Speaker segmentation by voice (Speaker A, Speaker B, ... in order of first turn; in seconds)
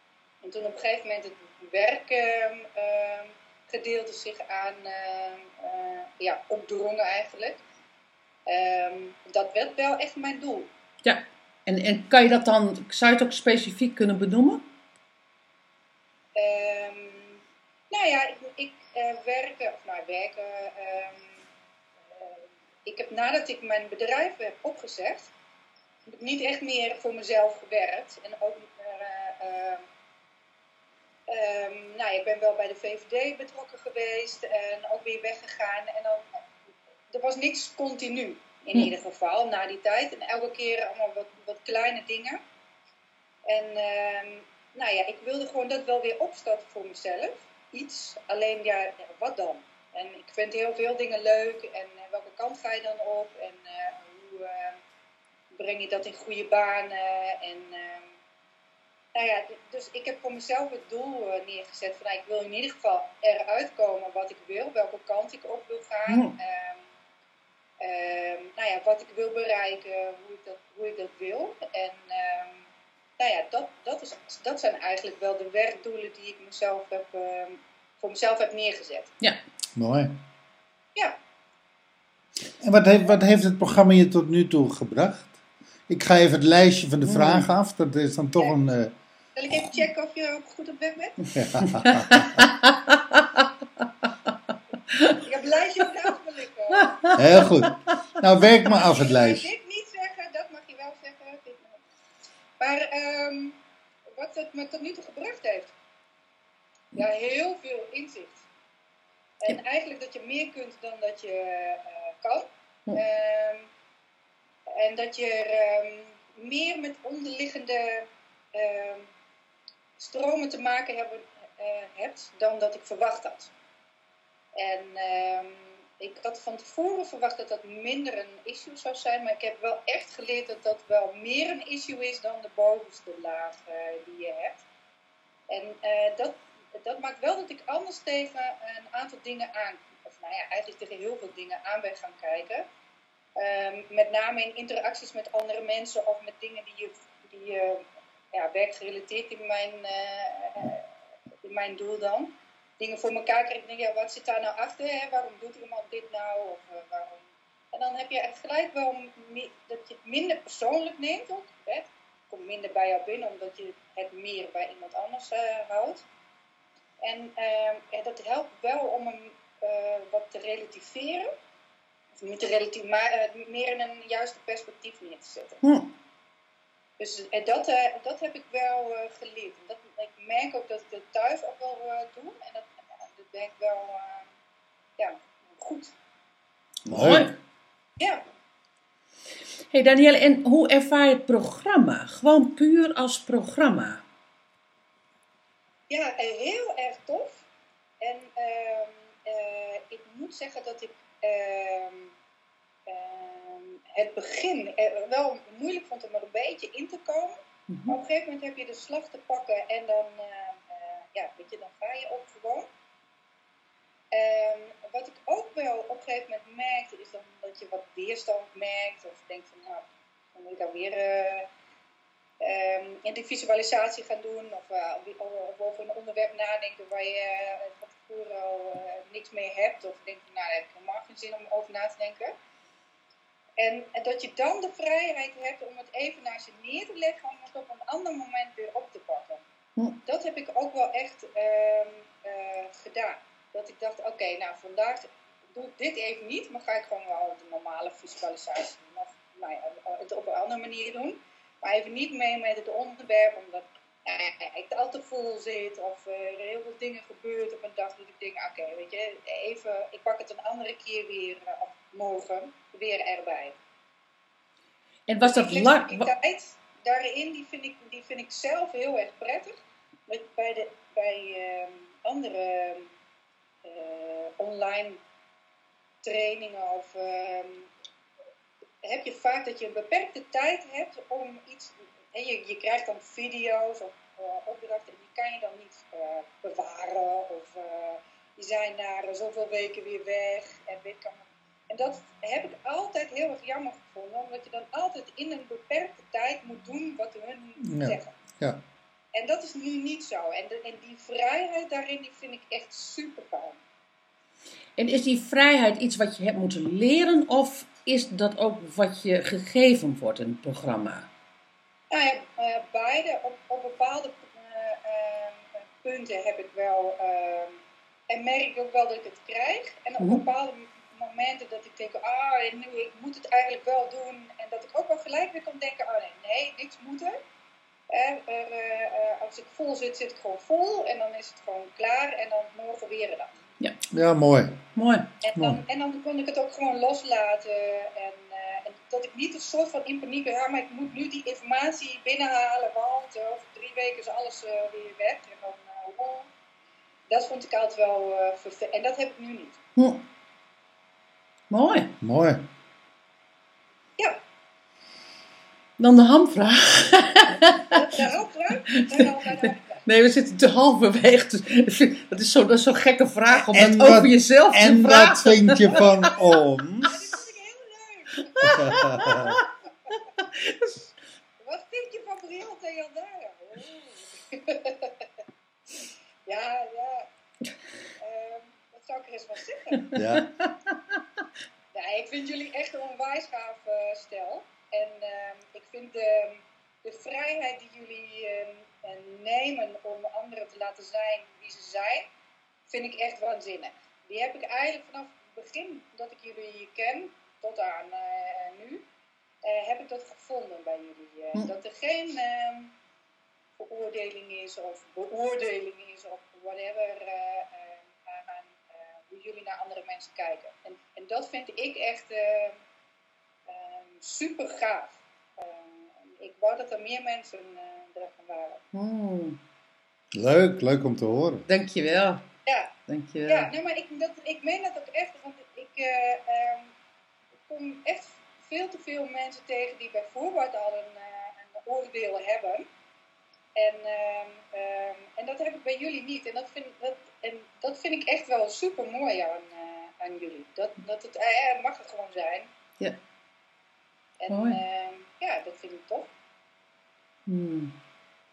Speaker A: 0.4-7.6, 8.4-10.7, 16.3-21.4, 22.1-25.3, 26.1-29.8, 31.3-36.4, 37.1-42.4, 43.4-54.8, 55.5-58.1, 59.1-66.8, 67.8-72.6, 73.2-79.1, 89.3-91.4, 95.2-97.1, 98.8-101.8, 102.6-103.6, 104.1-105.7, 106.9-108.4, 109.4-113.7, 114.7-119.1, 120.0-123.5, 124.5-134.6, 135.5-142.7, 143.3-150.9, 151.4-166.0, 167.0-171.3, 172.2-175.6, 177.0-184.3, 185.0-185.9, 188.0-188.2, 195.9-197.4, 198.0-202.1, 202.9-212.7, 214.1-221.5, 222.4-232.3, 233.6-239.4, 240.0-263.6, 265.2-272.9, 273.6-275.0, 276.0-277.7, 278.8-298.2, 299.1-303.6, 311.9-327.2, 327.9-333.3, 335.2-346.3, 347.1-349.6, 357.8-359.8, 366.8-368.7, 371.4-375.0, 376.2-377.1, 378.0-379.9, 381.7-392.1, 392.7-398.8, 399.4-402.7, 403.6-412.6, 413.5-418.6, 422.4-422.7, 423.2-426.7, 427.5-432.7, 433.5-442.5, 444.2-446.1
Speaker B: 11.0-14.6, 66.1-66.4, 87.0-87.5, 91.6-93.5, 94.9-95.2, 96.8-97.2, 175.6-175.9, 186.8-187.3, 189.7-194.0, 207.7-207.9, 265.1-266.1, 304.8-311.1, 320.0-320.2, 334.7-335.1, 349.8-350.0, 351.5-352.0, 355.8-358.0, 358.6-365.8, 368.3-370.8, 379.9-381.0, 418.7-419.4, 421.5-422.2, 422.9-423.5, 444.3-444.6, 447.3-447.7
Speaker C: 79.8-80.2, 82.6-85.3, 85.9-88.9, 91.3-92.5, 97.1-99.5, 186.9-187.3, 297.6-298.6, 333.9-334.6, 352.0-352.5, 363.5-367.1, 368.4-369.4, 379.9-380.3, 420.1-421.4